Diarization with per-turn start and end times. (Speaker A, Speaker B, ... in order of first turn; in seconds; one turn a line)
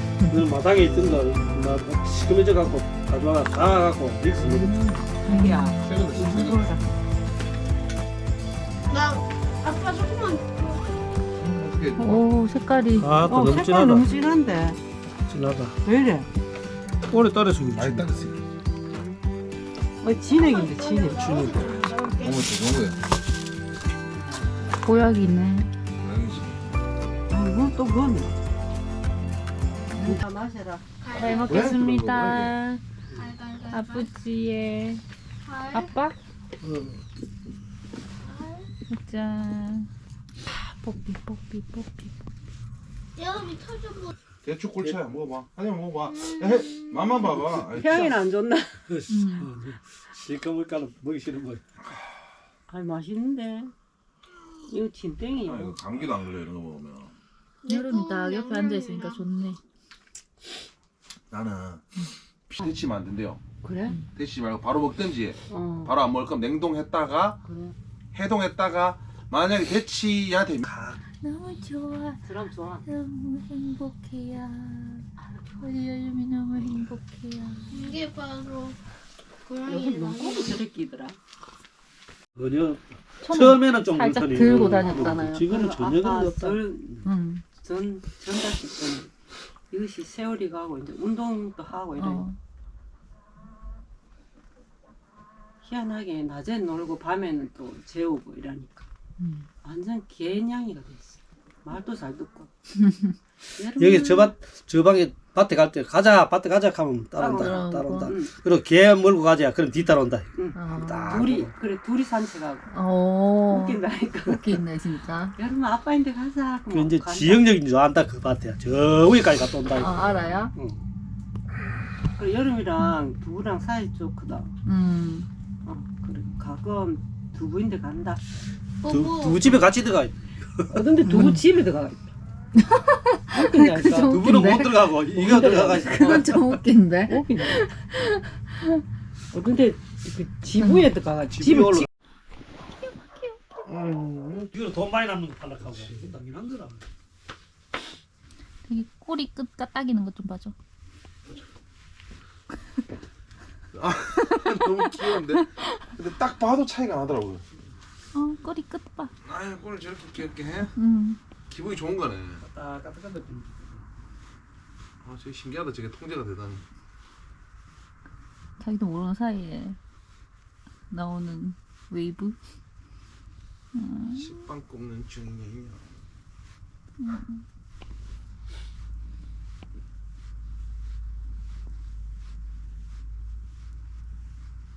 Speaker A: 0.3-4.8
Speaker B: 4.6-5.8
Speaker C: 5.2-6.9
Speaker D: 5.8-6.7
Speaker E: 8.9-10.8
Speaker D: 11.4-12.3
Speaker B: 12.0-13.2
Speaker A: 13.0-14.1
Speaker C: 13.2-14.8
Speaker A: 15.3-15.8
Speaker C: 15.8-16.3
Speaker A: 17.1-18.1
Speaker D: 17.8-18.4
Speaker C: 20.0-21.8
Speaker E: 20.4-22.5
Speaker D: 22.2-23.0
Speaker B: 24.8-25.7
Speaker D: 26.0-26.6
Speaker C: 27.3-28.4
Speaker B: 29.9-30.2
Speaker C: 30.0-30.9
Speaker E: 31.0-31.7
Speaker B: 31.1-32.8
Speaker D: 31.4-32.6
Speaker E: 33.1-34.1
Speaker B: 33.7-35.0
Speaker E: 35.5-35.9
Speaker B: 35.7-36.1
Speaker A: 36.6-37.0
Speaker E: 38.2-38.7
Speaker B: 38.9-39.9
Speaker B: 40.5-42.1
Speaker E: 43.2-44.1
Speaker D: 44.4-48.2
Speaker E: 46.1-47.3
Speaker C: 47.7-48.8
Speaker A: 48.9-51.6
Speaker B: 49.1-49.5
Speaker C: 52.7-53.7
Speaker C: 54.7-55.8
Speaker D: 55.4-57.1
Speaker E: 57.7-59.1
Speaker B: 57.7-59.6
Speaker D: 61.3-61.9
Speaker D: 62.5-63.4
Speaker C: 63.6-64.0
Speaker D: 64.1-67.4
Speaker C: 65.5-65.9
Speaker C: 67.4-67.8
Speaker D: 68.1-70.7
Speaker A: 70.7-71.0
Speaker B: 71.2-72.2
Speaker C: 72.2-72.8
Speaker B: 72.8-75.0
Speaker C: 75.3-75.6
Speaker B: 75.6-78.0
Speaker E: 77.7-78.8
Speaker E: 79.5-80.6
Speaker C: 79.7-81.2
Speaker A: 82.3-86.6
Speaker B: 83.2-85.4
Speaker C: 84.7-87.0
Speaker B: 87.0-87.4
Speaker C: 87.6-89.1
Speaker C: 89.7-92.3
Speaker B: 92.0-92.4
Speaker C: 95.6-98.8
Speaker B: 99.2-99.5
Speaker C: 99.6-102.5
Speaker B: 102.8-103.1
Speaker C: 103.6-104.3
Speaker A: 103.8-111.5
Speaker C: 107.2-108.3
Speaker B: 107.2-108.1
Speaker C: 110.3-112.7
Speaker B: 110.5-111.2
Speaker B: 112.7-115.3
Speaker C: 113.5-114.5
Speaker C: 115.3-117.5
Speaker A: 116.7-120.0
Speaker B: 119.8-120.5
Speaker C: 122.2-124.5
Speaker B: 124.6-125.3
Speaker C: 125.6-128.2
Speaker E: 128.8-129.5
Speaker A: 128.9-130.8
Speaker C: 130.7-132.1
Speaker B: 131.1-131.4
Speaker B: 132.6-134.9
Speaker C: 133.3-134.2
Speaker A: 134.0-136.4
Speaker C: 135.1-136.2
Speaker B: 135.9-138.8
Speaker C: 137.1-137.6
Speaker C: 139.3-141.9
Speaker B: 140.6-140.9
Speaker A: 141.3-141.9
Speaker D: 143.7-144.5
Speaker A: 144.5-146.8
Speaker B: 148.7-150.5
Speaker D: 153.7-157.4
Speaker B: 155.4-155.8
Speaker B: 158.1-159.1
Speaker D: 159.2-160.7
Speaker B: 160.8-161.2
Speaker D: 161.5-162.4
Speaker A: 162.4-163.8
Speaker D: 165.0-166.6
Speaker B: 168.6-169.8
Speaker B: 170.9-172.4
Speaker B: 173.7-174.4
Speaker D: 174.1-175.9
Speaker B: 177.0-177.4